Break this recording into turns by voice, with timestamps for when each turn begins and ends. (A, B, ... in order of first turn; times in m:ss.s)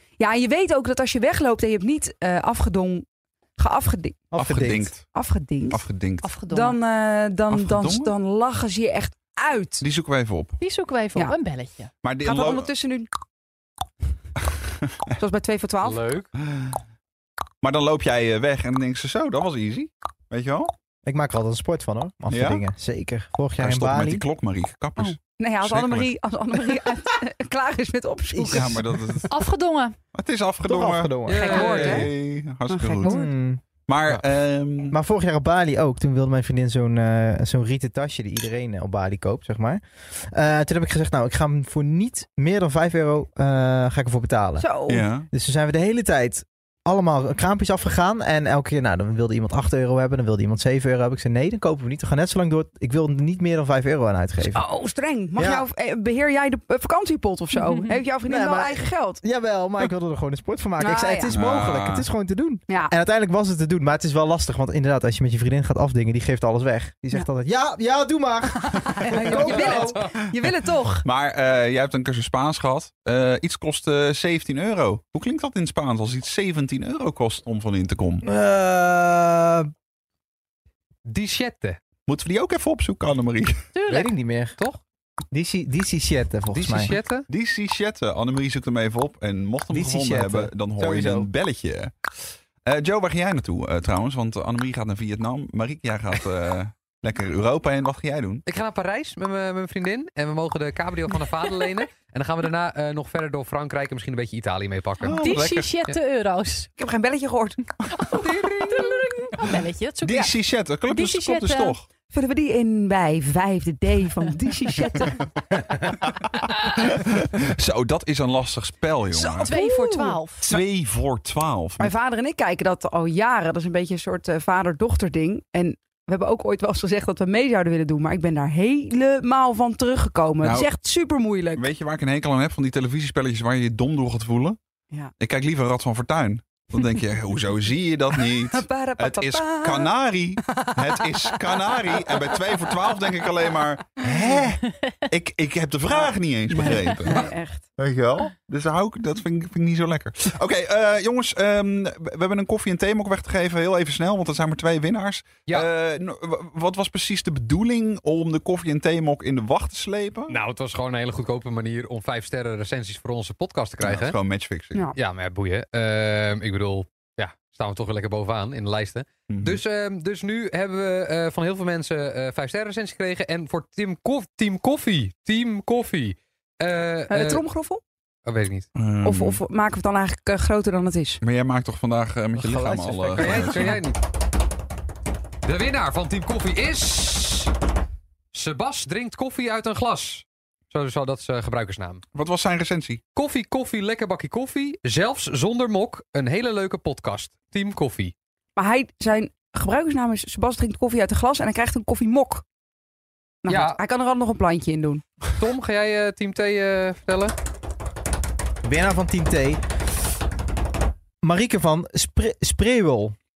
0:00.2-0:03.0 A
0:03.6-0:04.2 A
0:04.3-0:04.9 B
0:04.3-0:05.0 C
0:05.1-0:05.8 A
0:05.7-0:06.3 C
0:06.2-0:06.8 D
0:06.5-0:09.8 A
0:07.5-0:08.1 C
0:09.8-0:10.6 C
0:10.6-0:11.9 D
0:12.0-0:12.7 C
0:12.2-0:13.1 A
0:15.2-0:16.1 A
0:15.8-0:16.2 E
0:16.4-0:16.8 C
0:17.6-0:20.7 C
0:21.0-0:24.2 B
0:22.3-0:22.6 C
0:23.6-0:26.1 C
0:25.0-0:28.8 A
0:28.3-0:28.8 B
0:28.5-0:29.3 C
0:29.3-0:30.0 D
0:30.1-0:33.1 C
0:30.6-0:31.9 B
0:31.3-0:32.1 A
0:31.3-0:31.9 E
0:32.7-0:33.3 A
0:33.0-0:33.6 B
0:33.9-0:35.0 C
0:34.9-0:44.7 B
0:44.6-0:45.1 A
0:44.9-0:45.3 C
0:45.3-0:54.6 B
0:54.4-0:59.2 A
0:55.4-0:55.6 B
0:57.6-0:58.0 D
0:58.2-1:10.0 B
1:00.8-1:01.4 A
1:01.3-1:02.1 C
1:02.7-1:02.9 A
1:08.7-1:11.0 A
1:11.0-1:18.2 C
1:18.2-1:19.7 B
1:21.0-1:21.8 E
1:22.1-1:23.6 C
1:23.8-1:24.1 D
1:23.9-1:24.6 B
1:25.3-1:27.0 B
1:26.5-1:27.2 E
1:27.3-1:32.1 C
1:29.7-1:31.3 B
1:32.6-1:38.4 C
1:38.4-1:45.2 E
1:45.0-1:45.7 C
1:45.2-1:46.7 D
1:46.8-1:47.6 A
1:47.9-1:50.3 D
1:48.2-1:48.7 C
1:50.0-1:51.8 C
1:50.9-1:51.8 D
1:52.1-1:55.2 A
1:56.7-1:59.5 C
1:59.1-2:00.6 A
1:59.4-2:00.5 D
2:00.4-2:01.9 C
2:01.8-2:11.6 A
2:10.4-2:10.7 C
2:11.6-2:14.6 C
2:15.2-2:40.4 C
2:18.5-2:19.9 A
2:20.5-2:21.0 A
2:25.9-2:27.6 A
2:40.3-2:44.2 E
2:43.8-2:44.8 C
2:45.0-2:57.4 E
2:49.3-2:49.6 C
2:57.1-2:57.8 A
2:58.2-2:58.7 E
2:58.8-2:59.4 C
2:59.0-3:01.2 A
3:01.2-3:03.8 C
3:02.4-3:03.8 B
3:02.8-3:04.0 E
3:05.4-3:07.5 E
3:08.3-3:12.0 E
3:12.1-3:13.0 C
3:13.2-3:18.1 E
3:18.6-3:22.4 A
3:23.4-3:25.0 A
3:23.5-3:23.8 E
3:25.4-3:27.3 E
3:28.6-3:29.6 B
3:31.2-3:33.2 B